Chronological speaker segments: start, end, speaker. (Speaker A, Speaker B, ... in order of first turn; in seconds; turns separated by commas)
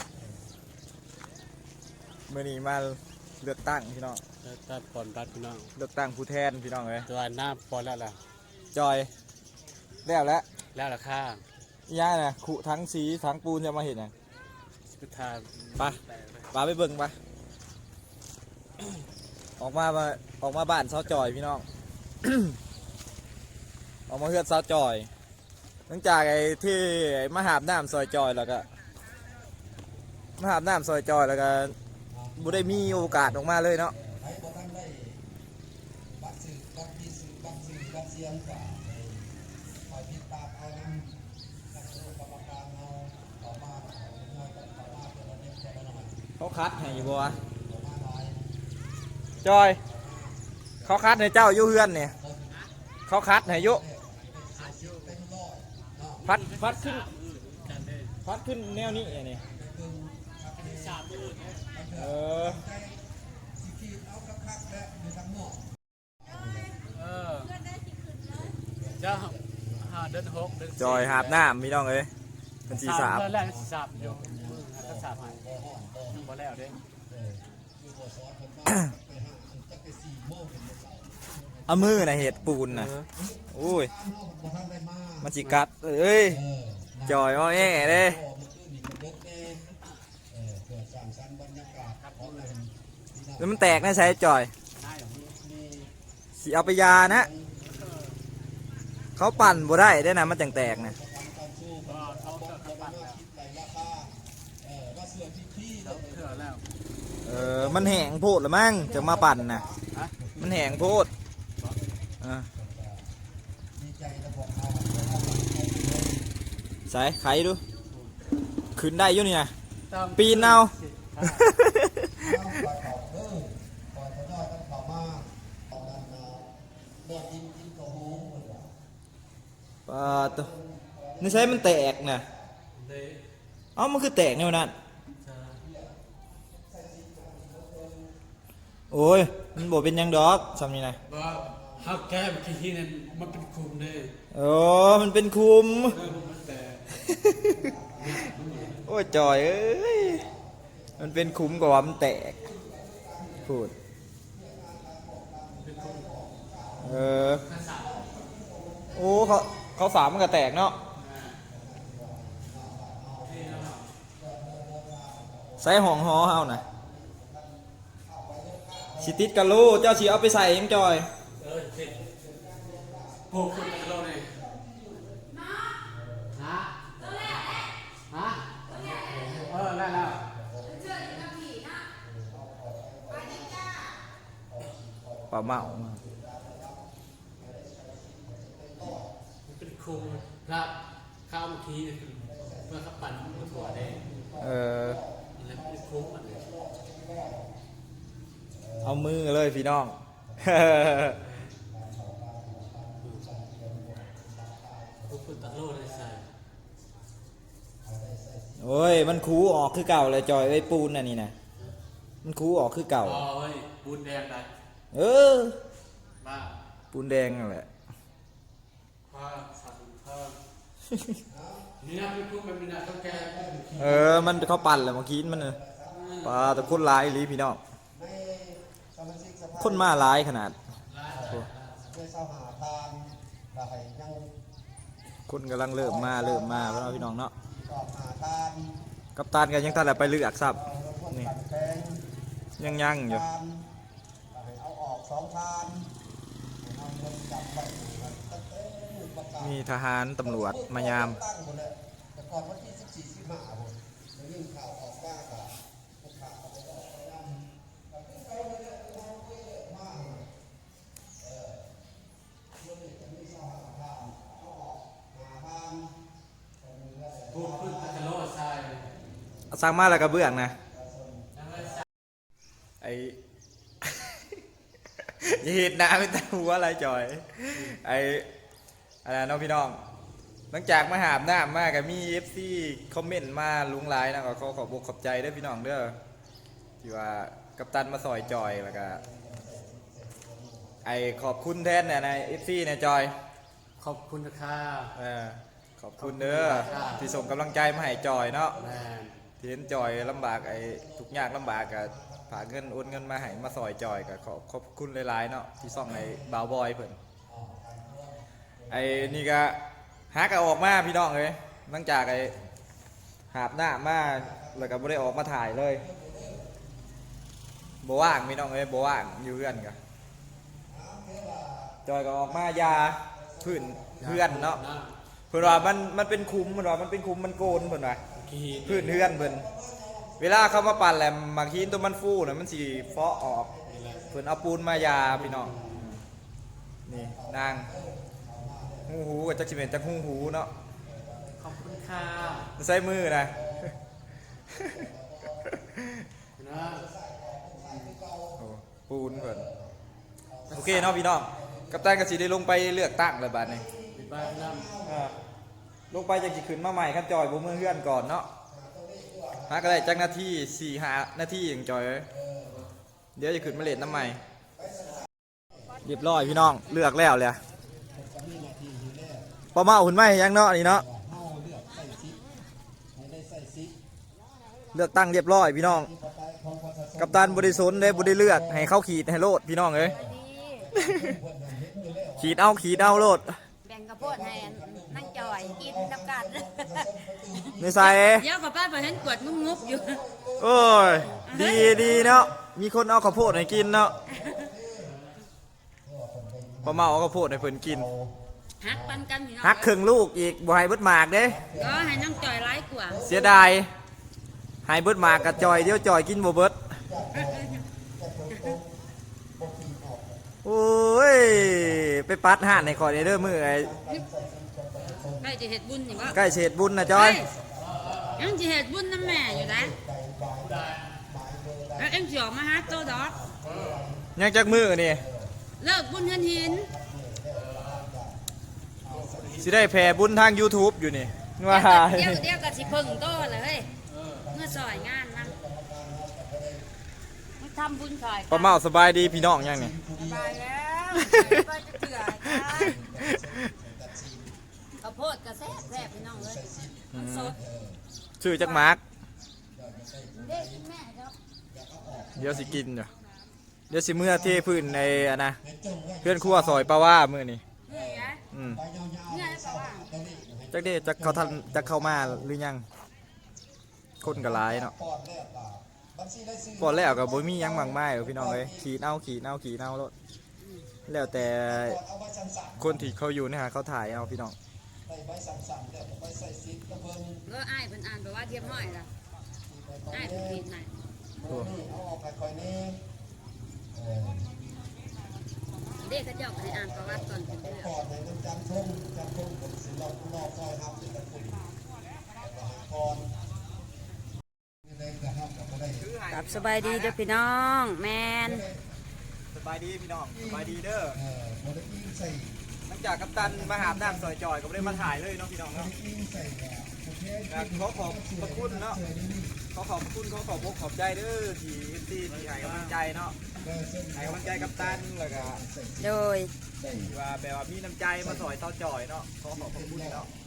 Speaker A: 2.3-4.2, Speaker B: 4.4-5.7, Speaker A: 5.8-7.1, Speaker B: 7.1-8.2, Speaker A: 8.7-9.1, Speaker A: 10.0-10.5, Speaker B: 10.7-11.4, Speaker A: 11.9-14.1, Speaker B: 14.9-16.5, Speaker A: 16.5-17.1, Speaker A: 19.6-21.7, Speaker A: 22.2-22.6, Speaker A: 24.1-25.1, Speaker A: 25.9-28.7, Speaker A: 30.4-31.7, Speaker C: 32.1-33.4, Speaker A: 32.4-34.0, Speaker C: 34.0-35.2, Speaker C: 36.2-39.2, Speaker C: 39.9-41.1, Speaker C: 41.7-46.1, Speaker A: 46.4-47.4, Speaker C: 46.8-48.4, Speaker A: 49.4-49.8, Speaker C: 49.9-50.9, Speaker A: 50.8-52.1, Speaker C: 52.0-52.5, Speaker A: 53.1-53.8, Speaker C: 53.5-56.2, Speaker B: 54.5-55.2, Speaker B: 56.2-58.1, Speaker A: 56.2-57.1, Speaker A: 58.2-59.4, Speaker C: 58.8-61.2, Speaker B: 60.5-61.7, Speaker C: 61.7-63.0, Speaker A: 61.9-62.7, Speaker C: 63.6-65.6, Speaker C: 66.2-66.8, Speaker B: 66.9-67.6, Speaker C: 68.8-70.7, Speaker B: 69.0-71.5, Speaker A: 70.8-72.1, Speaker A: 72.7-73.3, Speaker B: 72.7-75.5, Speaker C: 73.3-76.2, Speaker B: 76.1-76.8, Speaker C: 77.1-82.5, Speaker A: 81.7-82.9, Speaker B: 82.7-83.1, Speaker C: 83.2-85.2, Speaker A: 83.5-83.9, Speaker A: 85.2-86.4, Speaker C: 86.5-89.7, Speaker A: 87.0-88.2, Speaker C: 90.3-94.1, Speaker B: 92.0-92.5, Speaker A: 93.4-94.5, Speaker B: 94.8-95.2, Speaker C: 95.0-95.9, Speaker A: 96.4-97.3, Speaker C: 96.9-97.5, Speaker B: 97.6-98.2, Speaker A: 99.2-101.0, Speaker C: 99.5-106.2, Speaker B: 101.8-103.2, Speaker B: 105.8-106.6, Speaker A: 107.2-109.7, Speaker C: 107.3-108.0, Speaker C: 108.8-110.9, Speaker A: 110.4-111.1, Speaker A: 112.2-112.5, Speaker C: 112.6-113.0, Speaker C: 113.8-116.3, Speaker A: 116.9-117.6, Speaker A: 118.8-119.5, Speaker B: 119.9-121.4, Speaker A: 120.2-122.5, Speaker C: 122.2-126.5, Speaker C: 127.0-128.7, Speaker A: 129.9-130.5, Speaker C: 130.0-132.5, Speaker A: 131.2-132.3, Speaker B: 132.7-133.2, Speaker A: 133.8-134.8, Speaker B: 135.2-135.6, Speaker C: 135.6-135.9, Speaker C: 136.7-138.1, Speaker A: 138.9-141.0, Speaker B: 141.1-144.1, Speaker C: 141.1-142.0, Speaker C: 143.1-143.4, Speaker A: 144.3-146.0, Speaker B: 145.8-147.0, Speaker C: 146.0-146.5, Speaker A: 147.0-148.2, Speaker C: 147.5-149.3, Speaker B: 147.9-148.9, Speaker A: 148.8-150.2, Speaker C: 150.1-153.5, Speaker A: 151.0-152.5, Speaker A: 153.4-153.7, Speaker C: 154.3-157.1, Speaker B: 155.6-156.1, Speaker A: 156.8-157.4, Speaker B: 157.2-158.0, Speaker C: 157.7-159.3, Speaker A: 158.9-160.8, Speaker B: 160.9-161.4, Speaker C: 161.5-163.7, Speaker B: 163.2-163.8, Speaker C: 164.2-169.1, Speaker A: 165.6-166.6, Speaker A: 169.0-171.1, Speaker B: 171.4-172.0, Speaker C: 171.8-175.2, Speaker B: 173.3-174.3, Speaker D: 175.2-175.7, Speaker C: 175.8-176.3, Speaker B: 176.3-176.9, Speaker D: 177.0-177.7, Speaker B: 178.1-180.2, Speaker D: 178.7-179.4, Speaker C: 179.0-181.3, Speaker D: 180.7-181.8, Speaker C: 182.0-183.6, Speaker D: 183.1-183.9, Speaker C: 184.5-186.9, Speaker A: 185.3-186.0, Speaker C: 187.4-189.1, Speaker B: 189.4-190.8, Speaker B: 191.3-194.0, Speaker C: 192.3-197.5, Speaker A: 194.4-195.0, Speaker B: 195.3-196.5, Speaker C: 198.5-199.0, Speaker A: 198.8-201.2, Speaker C: 200.4-206.0, Speaker B: 201.2-201.5, Speaker B: 205.1-206.2, Speaker C: 207.8-208.6, Speaker A: 208.6-211.3, Speaker A: 212.2-213.3, Speaker B: 213.0-214.5, Speaker A: 214.9-215.6, Speaker B: 216.2-216.6, Speaker A: 216.9-217.7, Speaker B: 219.1-220.4, Speaker C: 221.3-221.7, Speaker B: 221.8-224.3, Speaker C: 223.2-226.7, Speaker A: 223.8-225.6, Speaker B: 225.9-226.8, Speaker A: 226.2-227.6, Speaker C: 227.9-230.0, Speaker A: 229.6-230.6, Speaker B: 230.9-232.0, Speaker C: 231.1-231.4, Speaker C: 231.9-234.3, Speaker A: 235.3-237.3, Speaker C: 235.8-238.8, Speaker A: 239.2-241.3, Speaker C: 239.7-242.0, Speaker A: 242.6-243.2, Speaker C: 242.7-243.7, Speaker C: 244.3-245.9, Speaker C: 246.6-249.5, Speaker A: 249.4-251.2, Speaker C: 250.3-255.5, Speaker C: 256.0-260.2, Speaker C: 261.2-261.6, Speaker C: 262.6-265.9, Speaker C: 266.6-268.1, Speaker B: 267.3-268.9, Speaker A: 269.5-270.6, Speaker C: 270.7-271.6, Speaker B: 271.4-271.8, Speaker A: 272.8-273.2, Speaker A: 273.8-274.2, Speaker A: 275.2-278.3, Speaker A: 279.1-279.8, Speaker A: 280.5-286.0, Speaker A: 286.8-289.0, Speaker C: 288.2-290.9, Speaker A: 290.8-293.1, Speaker B: 293.8-294.9, Speaker A: 294.9-298.6, Speaker B: 296.0-297.1, Speaker C: 296.4-298.8, Speaker B: 298.6-299.2, Speaker A: 299.4-307.0, Speaker C: 299.6-304.1, Speaker C: 305.6-306.4, Speaker C: 307.3-309.2, Speaker A: 308.7-309.6, Speaker A: 310.1-312.3, Speaker A: 313.3-315.9, Speaker C: 314.1-314.7, Speaker C: 315.8-316.7, Speaker A: 317.8-319.8, Speaker C: 320.7-324.3, Speaker A: 321.9-324.6, Speaker B: 324.0-324.9, Speaker A: 325.3-328.0, Speaker C: 327.9-330.8, Speaker B: 328.1-328.9, Speaker A: 328.6-329.5, Speaker A: 330.2-336.0, Speaker C: 332.7-335.8, Speaker B: 333.7-334.1, Speaker B: 335.3-335.6, Speaker A: 336.9-337.7, Speaker C: 336.9-338.9, Speaker A: 338.9-340.5, Speaker C: 339.4-343.8, Speaker B: 341.4-342.5, Speaker A: 342.6-343.7, Speaker A: 344.5-344.9, Speaker C: 344.6-345.5, Speaker A: 345.4-346.1, Speaker B: 346.4-346.9, Speaker C: 346.6-348.4, Speaker B: 347.6-348.0, Speaker A: 348.4-349.5, Speaker C: 349.1-349.7, Speaker C: 350.3-351.8, Speaker B: 350.5-351.0, Speaker A: 350.5-353.7, Speaker C: 353.5-355.1, Speaker B: 353.9-354.8, Speaker A: 354.8-355.2, Speaker A: 355.9-358.3, Speaker C: 358.5-360.0, Speaker A: 359.4-362.1, Speaker C: 362.1-362.6, Speaker A: 363.1-364.2, Speaker C: 363.4-364.1, Speaker C: 364.6-365.1, Speaker A: 365.8-367.4, Speaker C: 368.0-369.3, Speaker A: 369.5-370.9, Speaker C: 370.8-372.2, Speaker C: 372.9-373.8, Speaker A: 374.7-375.9, Speaker C: 375.8-378.6, Speaker A: 377.0-380.0, Speaker C: 379.8-383.1, Speaker D: 379.9-380.7, Speaker A: 380.7-381.2, Speaker A: 382.2-383.4, Speaker D: 383.6-390.0, Speaker C: 384.0-387.9, Speaker A: 387.6-388.3, Speaker C: 388.8-392.3, Speaker A: 390.4-393.9, Speaker D: 391.1-392.1, Speaker C: 393.1-394.9, Speaker D: 394.1-394.4, Speaker B: 394.8-395.2, Speaker C: 395.8-398.1, Speaker A: 396.6-397.9, Speaker D: 398.6-399.7, Speaker C: 398.6-399.0, Speaker A: 399.4-401.4, Speaker C: 401.3-403.5, Speaker D: 401.5-403.2, Speaker A: 403.0-403.7, Speaker A: 404.6-406.7, Speaker C: 405.0-405.8, Speaker C: 406.8-408.7, Speaker D: 407.2-407.5, Speaker C: 409.4-410.2, Speaker A: 410.4-413.7, Speaker C: 411.3-411.8, Speaker C: 412.5-415.3, Speaker D: 415.1-416.2, Speaker C: 415.9-418.4, Speaker A: 416.1-417.2, Speaker D: 416.9-417.3, Speaker B: 417.5-418.3, Speaker D: 418.2-419.7, Speaker C: 419.0-422.0, Speaker B: 420.4-421.0, Speaker D: 421.8-423.2, Speaker C: 422.6-424.1, Speaker B: 423.4-423.9, Speaker A: 424.1-425.1, Speaker C: 424.9-425.3, Speaker D: 425.6-426.7, Speaker C: 425.9-428.2, Speaker B: 427.3-427.9, Speaker C: 428.8-430.0, Speaker B: 428.9-429.6, Speaker A: 429.4-432.3, Speaker D: 431.5-433.7, Speaker C: 432.1-433.7, Speaker B: 433.9-434.3, Speaker C: 434.2-436.6, Speaker D: 434.3-435.4, Speaker D: 437.4-438.6, Speaker A: 438.3-439.8, Speaker C: 439.0-440.4, Speaker D: 439.9-442.8, Speaker A: 441.0-441.3, Speaker A: 442.2-443.5, Speaker C: 442.5-444.3, Speaker D: 444.8-447.3, Speaker C: 445.4-447.8, Speaker A: 446.9-447.4, Speaker A: 448.2-448.8, Speaker D: 448.3-448.8, Speaker C: 449.5-450.6, Speaker D: 450.1-451.1, Speaker C: 451.5-452.6, Speaker A: 452.2-452.9, Speaker A: 453.7-455.4, Speaker C: 453.9-456.7, Speaker A: 456.0-457.4, Speaker D: 457.6-458.2, Speaker C: 457.7-462.2, Speaker A: 458.3-458.6, Speaker D: 459.1-459.9, Speaker A: 460.5-462.6, Speaker A: 464.0-464.8, Speaker C: 464.0-468.6, Speaker A: 466.6-469.9, Speaker D: 470.4-470.6, Speaker A: 470.9-471.8, Speaker C: 471.1-472.9, Speaker A: 472.6-474.4, Speaker C: 474.9-477.2, Speaker D: 477.2-478.9, Speaker C: 478.3-478.7, Speaker C: 479.5-480.4, Speaker D: 479.9-480.7, Speaker C: 481.2-482.8, Speaker A: 481.3-481.5, Speaker C: 483.8-484.3, Speaker D: 485.8-487.7, Speaker C: 486.4-491.5, Speaker C: 492.2-493.1, Speaker C: 494.6-495.8, Speaker A: 495.7-497.0, Speaker D: 496.1-498.5, Speaker C: 498.2-498.6, Speaker A: 499.3-501.0, Speaker C: 500.1-500.4, Speaker C: 501.0-502.4, Speaker A: 502.7-505.7, Speaker C: 503.2-504.0, Speaker C: 505.6-509.4, Speaker A: 507.3-508.8, Speaker A: 509.5-513.2, Speaker B: 512.1-512.8, Speaker C: 513.4-516.0, Speaker A: 513.9-515.4, Speaker D: 515.8-516.3, Speaker C: 516.6-516.9, Speaker A: 516.8-520.1, Speaker C: 519.4-520.1